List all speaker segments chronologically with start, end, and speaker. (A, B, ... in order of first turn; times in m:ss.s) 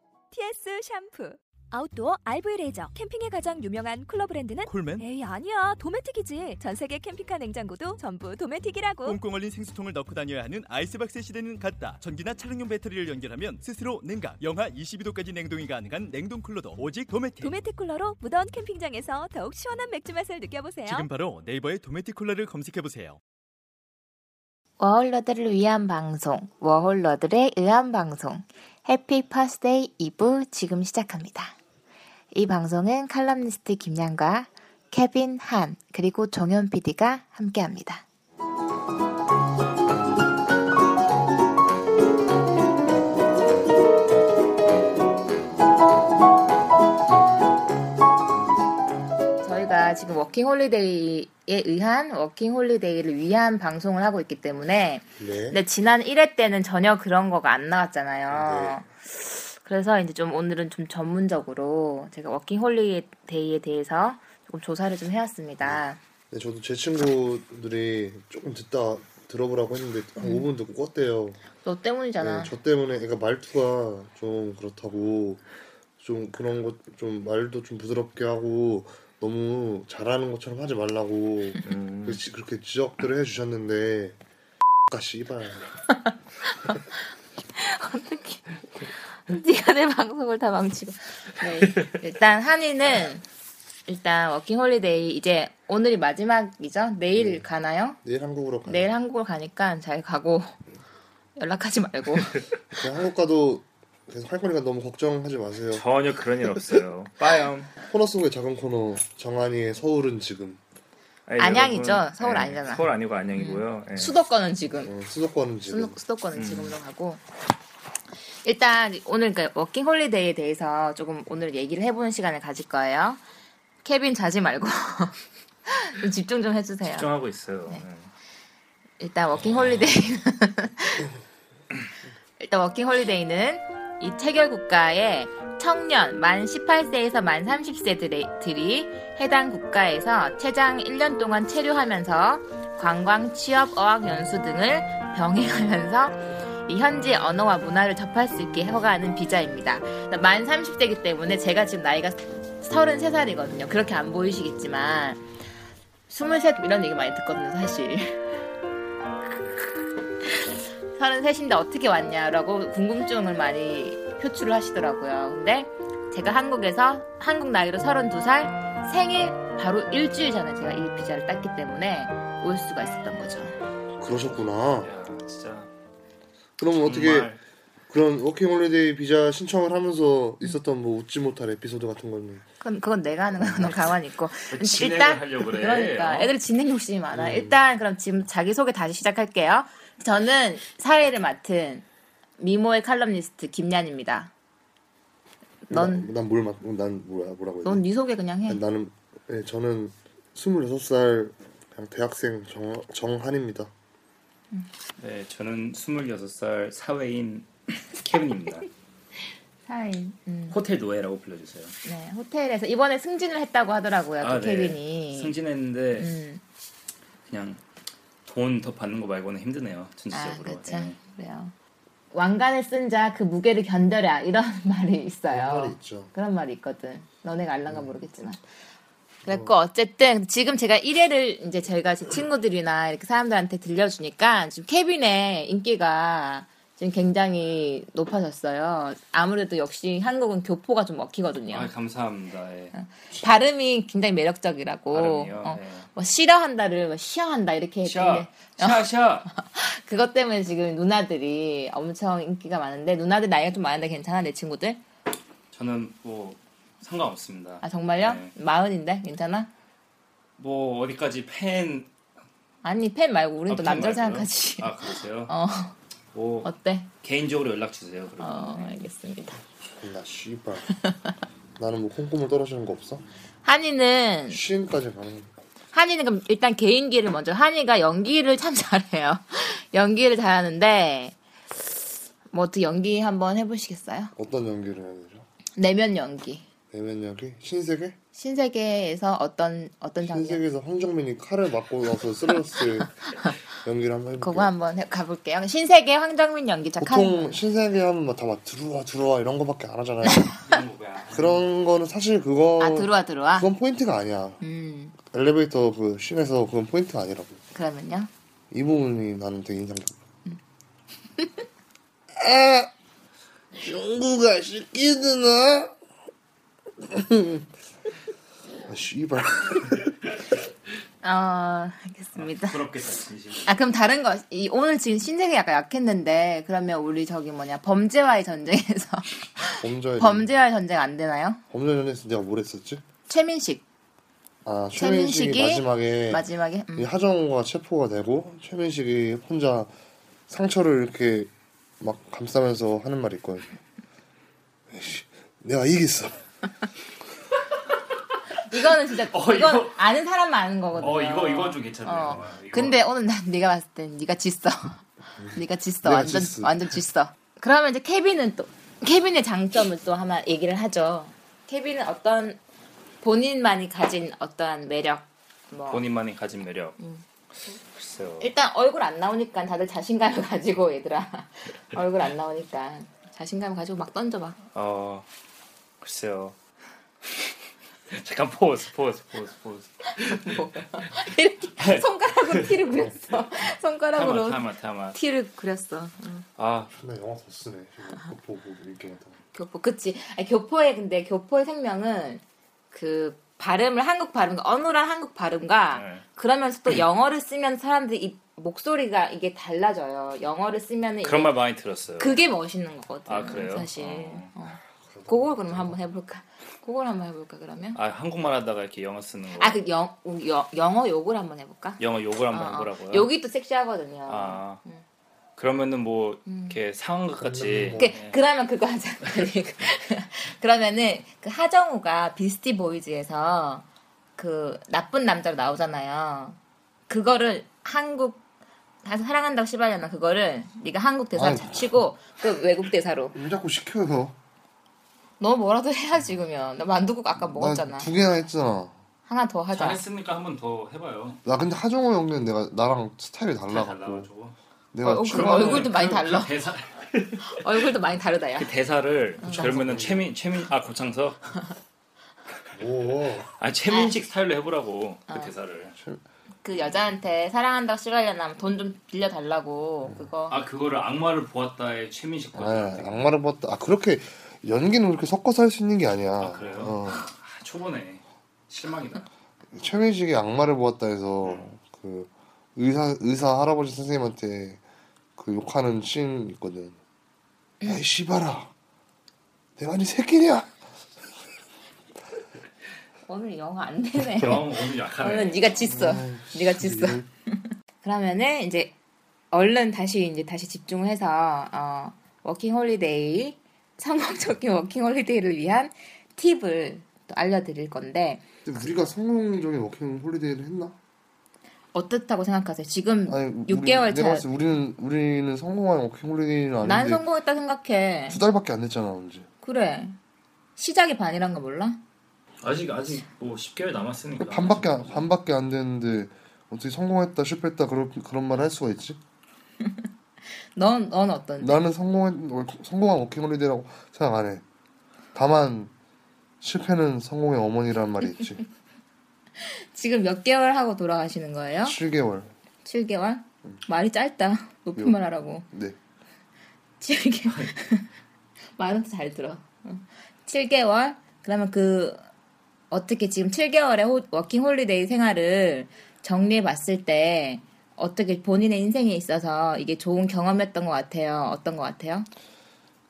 0:00.3-0:09.2 A
0:04.7-0:05.1 B
0:09.0-0:17.6 B
0:17.4-0:21.1 A
0:20.9-0:23.2 B
0:24.8-0:31.6 C
0:32.3-0:38.0 C
0:49.4-1:06.0 C
0:55.2-0:55.6 D
0:58.3-0:58.8 D
1:05.6-1:11.4 D
1:10.2-1:10.4 C
1:11.6-1:12.5 C
1:12.2-1:15.4 D
1:16.0-1:24.2 D
1:21.7-1:22.2 E
1:24.9-1:25.7 D
1:27.6-1:28.4 C
1:29.1-1:33.2 C
1:33.9-1:38.0 C
1:37.2-1:37.4 D
1:38.0-1:38.9 D
1:38.7-1:40.6 C
1:41.4-1:42.4 C
1:42.7-1:45.9 D
1:45.7-1:47.7 E
1:47.9-1:50.6 D
1:51.3-1:54.2 E
1:51.4-1:54.9 C
1:54.8-1:56.0 D
1:55.7-1:57.2 C
1:56.4-1:56.8 E
1:58.4-2:03.2 C
2:03.8-2:05.2 C
2:05.7-2:07.1 C
2:06.8-2:08.1 E
2:09.0-2:11.1 C
2:12.4-2:35.2 C
2:36.1-2:38.2 C
2:40.3-2:53.6 C
2:54.0-2:54.9 D
2:54.8-2:55.7 E
2:56.6-2:57.3 D
2:56.8-2:57.4 E
2:57.9-3:02.4 D
3:02.6-3:11.8 C
3:03.4-3:03.8 D
3:04.5-3:06.3 E
3:07.1-3:07.6 D
3:12.4-3:14.3 C
3:15.6-3:16.1 C
3:15.7-3:17.8 D
3:17.6-3:18.6 C
3:18.5-3:23.7 D
3:25.0-3:28.7 E
3:29.7-3:30.6 C
3:30.5-3:31.8 E
3:31.8-3:35.4 C
3:34.2-3:36.1 E
3:36.0-3:36.4 C
3:37.3-3:37.6 E
3:38.3-3:41.0 E
3:40.1-3:41.5 C
3:42.1-3:48.4 C
3:45.3-3:46.1 D
3:49.2-4:01.7 C
3:49.3-3:49.5 D
4:01.5-4:02.7 E
4:02.7-4:14.8 C
4:04.9-4:05.9 E
4:07.8-4:09.3 E
4:15.5-4:18.3 E
4:17.6-4:19.5 C
4:20.4-4:21.9 E
4:22.6-4:25.8 C
4:23.5-4:25.3 E
4:26.1-4:26.5 E
4:26.4-4:26.9 C
4:27.0-4:28.6 E
4:28.2-4:29.4 C
4:29.6-4:30.7 D
4:31.6-4:33.0 D
4:33.4-4:34.4 C
4:34.3-4:35.3 D
4:35.7-4:41.2 C
4:42.3-4:44.1 C
4:44.2-4:45.3 D
4:45.6-4:46.5 C
4:46.7-4:48.0 D
4:48.2-4:50.4 C
4:50.0-4:53.0 D
4:53.6-4:54.5 D
4:54.2-4:57.4 C
4:56.8-5:00.4 D
5:00.4-5:01.4 E
5:01.1-5:04.4 D
5:02.6-5:03.5 C
5:04.4-5:05.0 C
5:05.0-5:07.4 D
5:07.6-5:08.1 C
5:08.5-5:10.0 D
5:12.2-5:12.7 D
5:13.5-5:15.8 D
5:16.8-5:17.4 D
5:18.6-5:19.9 D
5:21.0-5:22.6 C
5:22.2-5:23.5 E
5:23.4-5:31.4 C
5:29.6-5:30.3 D
5:31.5-5:32.8 D
5:33.1-5:33.6 C
5:34.4-5:36.2 D
5:34.8-5:36.9 C
5:36.8-5:39.7 D
5:40.3-5:43.5 D
5:44.7-5:46.2 D
5:48.5-6:02.4 C
5:49.1-5:49.8 E
5:50.8-5:52.8 E
5:55.2-5:56.8 D
6:03.0-6:05.8 C
6:05.7-6:06.8 E
6:07.5-6:08.3 E
6:08.2-6:14.4 C
6:14.5-6:15.1 E
6:15.8-6:16.4 E
6:17.0-6:17.3 E
6:17.9-6:20.9 E
6:20.0-6:26.2 C
6:21.6-6:22.6 E
6:23.9-6:25.0 E
6:26.4-6:26.7 E
6:26.7-6:29.2 D
6:29.3-6:32.2 C
6:32.7-6:41.4 C
6:35.7-6:36.0 E
6:41.0-6:42.2 E
6:42.0-6:47.8 C
6:43.1-6:44.3 E
6:44.9-6:45.8 D
6:47.8-6:49.6 E
6:49.4-6:54.8 C
6:51.8-6:53.1 E
6:54.1-6:54.6 E
6:55.4-6:58.2 E
6:56.3-6:56.6 C
6:57.2-6:58.0 D
6:57.8-7:03.6 C
7:04.2-7:06.4 C
7:06.9-7:08.2 C
7:08.8-7:13.2 C
7:11.2-7:11.9 D
7:13.1-7:14.2 D
7:15.2-7:17.9 C
7:17.2-7:18.8 D
7:19.1-7:19.8 C
7:19.5-7:21.2 E
7:21.2-7:24.1 D
7:23.5-7:24.4 E
7:24.7-7:25.7 D
7:24.8-7:26.3 C
7:24.9-7:27.5 E
7:27.2-7:28.5 C
7:28.4-7:31.4 E
7:29.2-7:29.5 C
7:29.2-7:30.1 D
7:32.5-7:33.3 D
7:33.4-7:35.8 E
7:33.7-7:33.9 C
7:36.4-7:40.4 C
7:39.8-7:40.1 D
7:40.3-7:43.0 E
7:42.3-7:47.1 D
7:46.2-7:49.1 E
7:49.5-7:54.6 D
7:55.2-7:56.8 D
7:57.6-7:58.5 D
7:59.6-8:00.6 D
8:03.1-8:07.0 C
8:04.1-8:05.7 E
8:05.6-8:07.1 D
8:07.8-8:08.7 C
8:09.3-8:18.2 C
8:18.4-8:20.8 D
8:21.7-8:24.3 C
8:23.1-8:27.0 D
8:26.6-8:28.2 C
8:28.1-8:29.3 D
8:29.4-8:30.0 C
8:30.6-8:31.8 C
8:32.4-8:35.1 E
8:34.2-8:39.0 D
8:40.6-8:41.6 C
8:41.4-8:44.4 D
8:45.1-8:45.7 D
8:46.4-8:48.4 D
8:49.4-8:51.8 C
8:51.6-8:52.3 D
8:52.6-8:55.5 C
8:55.5-8:55.8 D
8:56.8-8:57.9 C
8:58.6-9:02.0 C
9:02.7-9:12.1 C